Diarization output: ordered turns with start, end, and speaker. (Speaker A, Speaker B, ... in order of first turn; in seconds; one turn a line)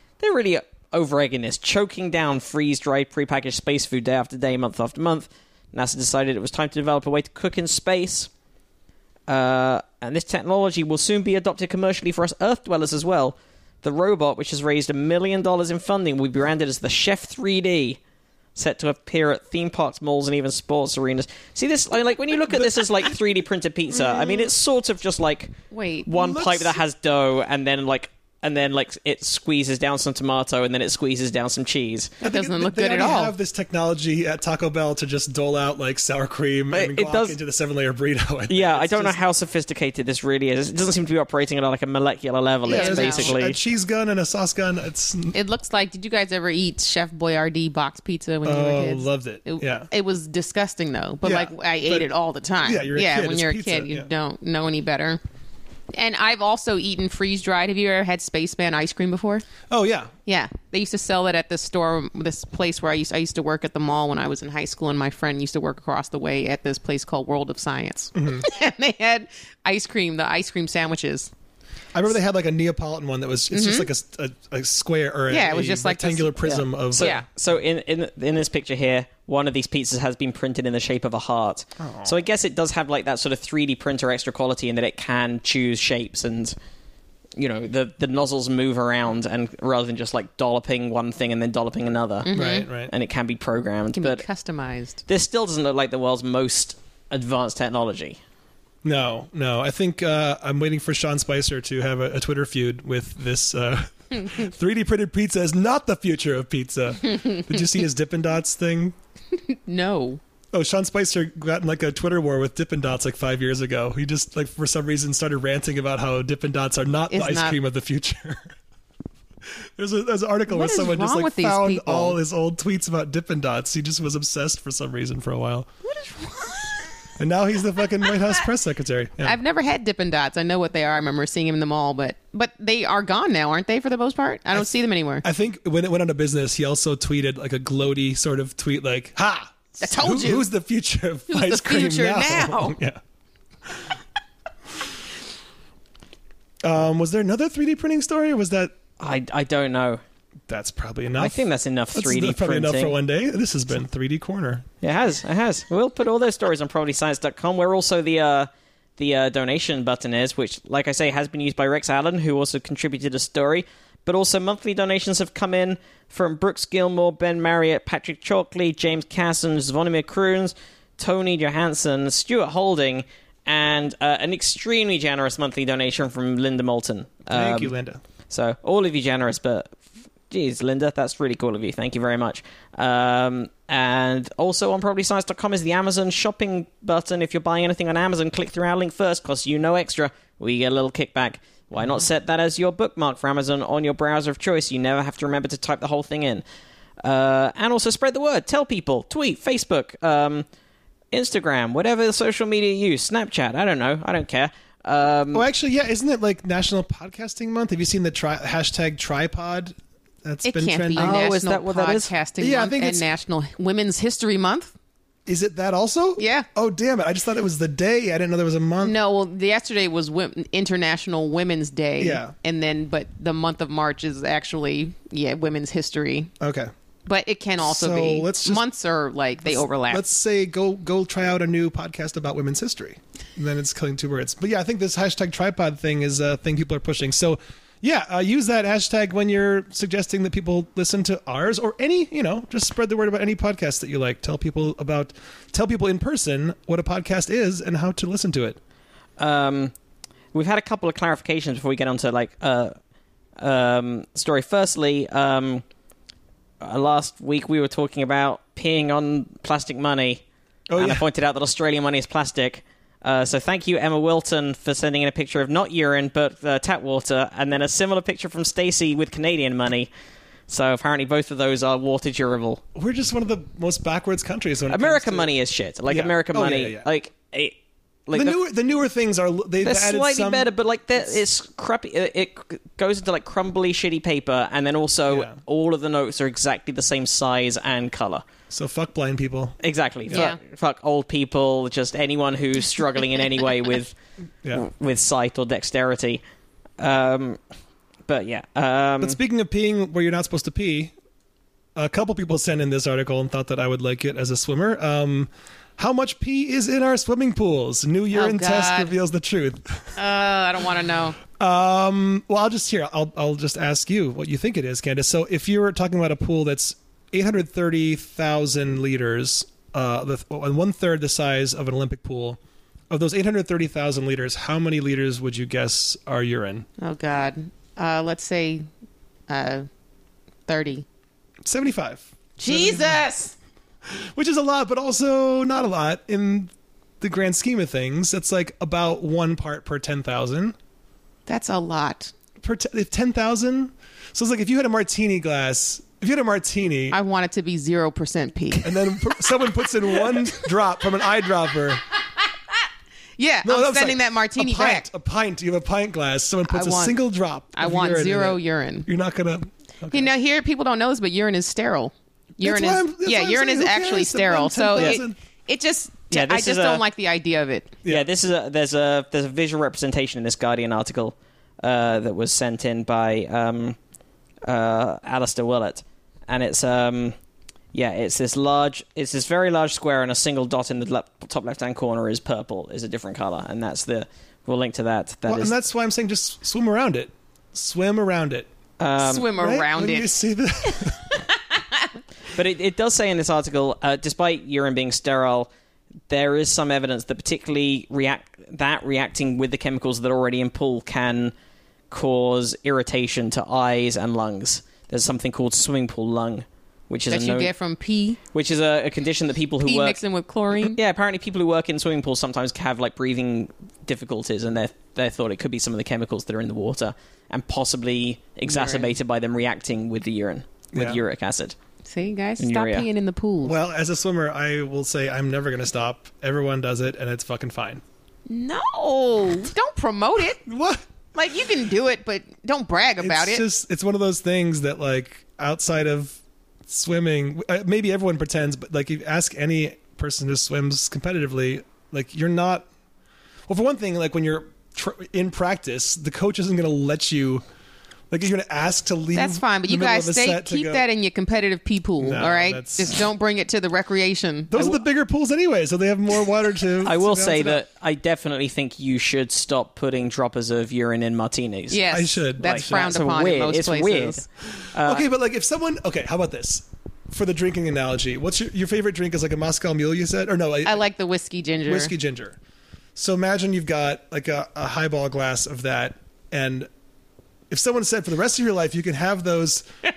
Speaker A: 0.2-8.3
Speaker A: 9.3-18.0
Speaker A: 18.6-25.6
Speaker B: 24.0-24.5
Speaker C: 25.7-26.1
Speaker A: 26.1-32.1
Speaker B: 26.1-26.8
Speaker C: 32.2-33.3
Speaker B: 32.2-39.2
Speaker A: 36.7-37.4
Speaker A: 38.5-43.6
Speaker C: 42.7-43.4
Speaker B: 42.7-45.4
Speaker C: 45.3-55.2
Speaker B: 48.5-49.9
Speaker B: 51.2-52.1
Speaker B: 52.6-54.1
Speaker C: 55.9-59.5
Speaker B: 59.7-60.1
Speaker C: 60.3-71.3
Speaker B: 68.2-68.5
Speaker B: 71.9-77.1
Speaker C: 73.5-73.9
Speaker C: 75.3-77.3
Speaker A: 76.9-86.6
Speaker B: 81.8-82.2
Speaker A: 87.4-94.2
Speaker C: 92.2-92.7
Speaker B: 92.3-92.9
Speaker C: 93.9-95.0
Speaker A: 95.1-98.2
Speaker B: 98.8-109.0
Speaker C: 109.4-110.2
Speaker B: 110.5-118.5
Speaker C: 117.1-117.6
Speaker B: 119.4-125.7
Speaker C: 120.5-122.2
Speaker C: 125.8-126.9
Speaker B: 127.2-129.4
Speaker C: 128.0-128.3
Speaker C: 129.2-135.2
Speaker B: 135.2-143.0
Speaker C: 139.8-140.5
Speaker C: 141.3-142.8
Speaker B: 143.7-144.0
Speaker B: 146.6-148.8
Speaker A: 149.0-150.0
Speaker B: 150.5-154.7
Speaker A: 151.2-152.9
Speaker A: 154.8-177.7
Speaker B: 177.3-178.0
Speaker A: 178.3-179.8
Speaker A: 180.3-196.4
Speaker A: 197.0-200.5
Speaker A: 201.1-205.5
Speaker B: 205.3-211.3
Speaker C: 210.4-214.7
Speaker A: 211.0-212.1
Speaker B: 212.4-213.1
Speaker B: 215.3-218.9
Speaker C: 216.2-216.5
Speaker C: 218.8-226.3
Speaker B: 222.0-222.3
Speaker B: 226.4-226.7
Speaker C: 227.1-230.1
Speaker B: 227.6-228.7
Speaker B: 229.4-248.6
Speaker A: 249.2-249.7
Speaker A: 250.3-252.8
Speaker A: 253.4-255.6
Speaker A: 256.6-260.2
Speaker B: 260.7-261.1
Speaker A: 260.8-269.9
Speaker A: 270.5-272.6
Speaker B: 272.8-275.3
Speaker A: 274.7-277.6
Speaker B: 275.9-276.9
Speaker A: 278.1-278.4
Speaker B: 278.1-281.1
Speaker A: 279.6-288.3
Speaker B: 285.1-285.4
Speaker B: 288.5-290.3
Speaker A: 289.6-293.9
Speaker C: 290.1-290.4
Speaker A: 294.5-296.2
Speaker A: 296.8-297.4
Speaker A: 298.1-299.2
Speaker B: 299.0-300.9
Speaker B: 301.8-310.0
Speaker C: 308.1-308.9
Speaker C: 310.0-311.2
Speaker B: 311.4-322.4
Speaker B: 322.9-326.7
Speaker C: 326.8-328.7
Speaker C: 329.3-329.7
Speaker C: 330.5-330.9
Speaker B: 331.4-333.0
Speaker C: 332.4-333.4
Speaker B: 333.9-340.6
Speaker C: 341.3-342.1
Speaker B: 342.4-347.0
Speaker C: 346.9-350.5
Speaker B: 348.6-351.8
Speaker C: 353.2-354.9
Speaker B: 353.4-360.1
Speaker C: 356.5-357.0
Speaker C: 357.5-358.9
Speaker C: 359.9-367.8
Speaker B: 362.4-365.2
Speaker A: 366.1-366.8
Speaker A: 367.9-373.8
Speaker A: 374.5-377.1
Speaker A: 377.7-385.5
Speaker B: 385.3-388.5
Speaker A: 388.8-389.3
Speaker C: 389.0-390.1
Speaker B: 389.4-391.1
Speaker C: 390.7-391.9
Speaker A: 392.3-395.5
Speaker A: 396.1-401.3
Speaker A: 401.9-407.5
Speaker C: 407.1-408.2
Speaker A: 408.3-410.0
Speaker C: 409.6-410.8
Speaker A: 410.6-421.6
Speaker C: 418.5-418.9
Speaker B: 420.7-421.0
Speaker C: 421.9-423.5
Speaker A: 422.4-422.9
Speaker B: 423.4-427.8
Speaker C: 428.3-430.4
Speaker B: 430.4-430.9
Speaker C: 431.1-433.4
Speaker B: 433.0-442.7
Speaker B: 443.5-447.4
Speaker B: 448.1-450.8
Speaker C: 449.1-454.8
Speaker B: 452.0-453.0
Speaker B: 454.5-457.6
Speaker A: 456.8-461.9
Speaker C: 461.7-464.2
Speaker B: 461.9-462.9
Speaker A: 462.4-465.1
Speaker B: 464.8-470.8
Speaker C: 470.6-471.9
Speaker B: 471.7-472.4
Speaker B: 472.9-476.7
Speaker B: 477.5-479.6